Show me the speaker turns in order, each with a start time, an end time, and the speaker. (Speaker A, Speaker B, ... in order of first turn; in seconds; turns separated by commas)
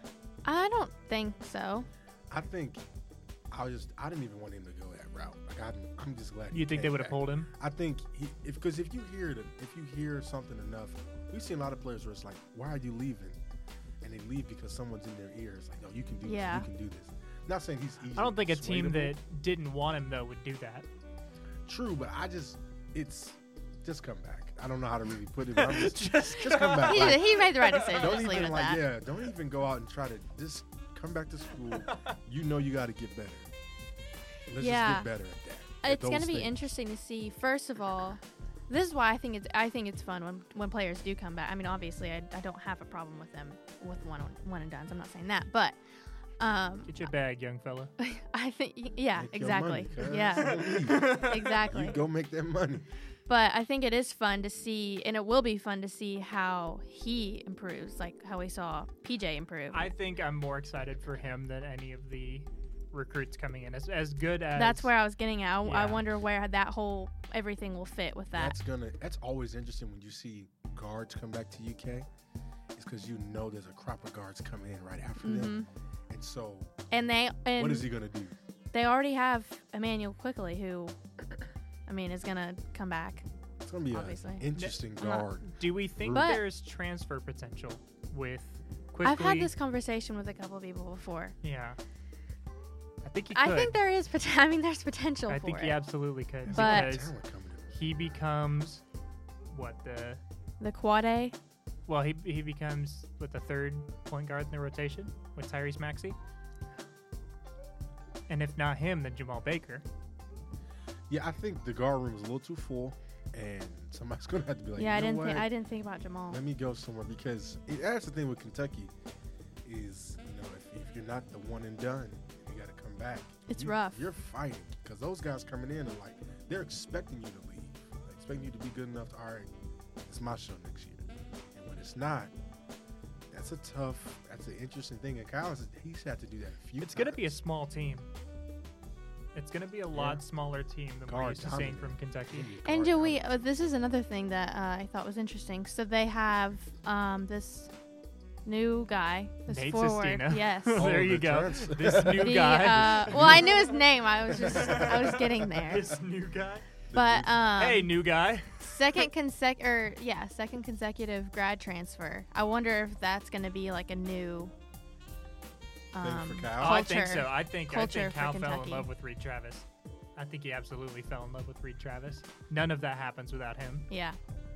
Speaker A: 0.5-1.9, Speaker B: 2.3-2.8, Speaker B: 3.5-13.4, Speaker C: 6.5-7.5, Speaker B: 14.0-19.2, Speaker A: 16.2-16.7, Speaker C: 18.1-20.9, Speaker B: 21.7-33.5, Speaker C: 25.5-28.5, Speaker A: 26.8-28.8, Speaker B: 34.5-36.5, Speaker A: 34.6-35.1, Speaker A: 35.8-45.8, Speaker A: 46.4-47.1, Speaker C: 46.9-47.9, Speaker A: 48.0-52.0, Speaker B: 49.2-52.9, Speaker C: 50.4-51.5, Speaker A: 53.3-59.9, Speaker C: 59.7-64.9, Speaker A: 64.6-68.5, Speaker C: 65.6-66.0, Speaker B: 68.3-72.1, Speaker B: 72.8-76.7, Speaker A: 75.2-75.7, Speaker A: 76.9-77.9, Speaker B: 77.6-78.4, Speaker A: 78.7-81.0, Speaker A: 81.9-83.3, Speaker B: 83.7-86.4, Speaker A: 83.9-84.5, Speaker C: 84.5-89.5, Speaker A: 86.1-86.4, Speaker A: 89.0-91.3, Speaker C: 91.4-91.8, Speaker C: 93.0-93.8, Speaker A: 93.3-95.8, Speaker C: 95.3-97.1, Speaker B: 96.5-98.2, Speaker A: 96.5-96.9, Speaker C: 97.7-98.8, Speaker C: 99.5-100.2, Speaker A: 100.6-101.3, Speaker C: 101.9-106.2, Speaker C: 108.3-109.8, Speaker B: 111.1-115.5, Speaker A: 114.8-116.4, Speaker B: 116.3-118.9, Speaker B: 119.7-129.5, Speaker A: 123.5-124.1, Speaker B: 130.0-132.3, Speaker B: 133.3-137.3, Speaker C: 136.8-138.1, Speaker C: 139.3-142.5, Speaker B: 139.9-140.2, Speaker B: 141.1-143.4, Speaker A: 142.6-147.7, Speaker A: 148.5-150.9, Speaker C: 149.5-153.8, Speaker B: 150.8-153.6, Speaker A: 152.1-155.9, Speaker B: 154.3-155.2, Speaker C: 154.3-156.7, Speaker B: 156.9-157.4, Speaker A: 156.9-157.9, Speaker C: 157.6-159.1, Speaker A: 158.6-164.5, Speaker A: 165.9-168.9, Speaker B: 166.0-166.8, Speaker C: 166.6-173.9, Speaker A: 173.9-174.2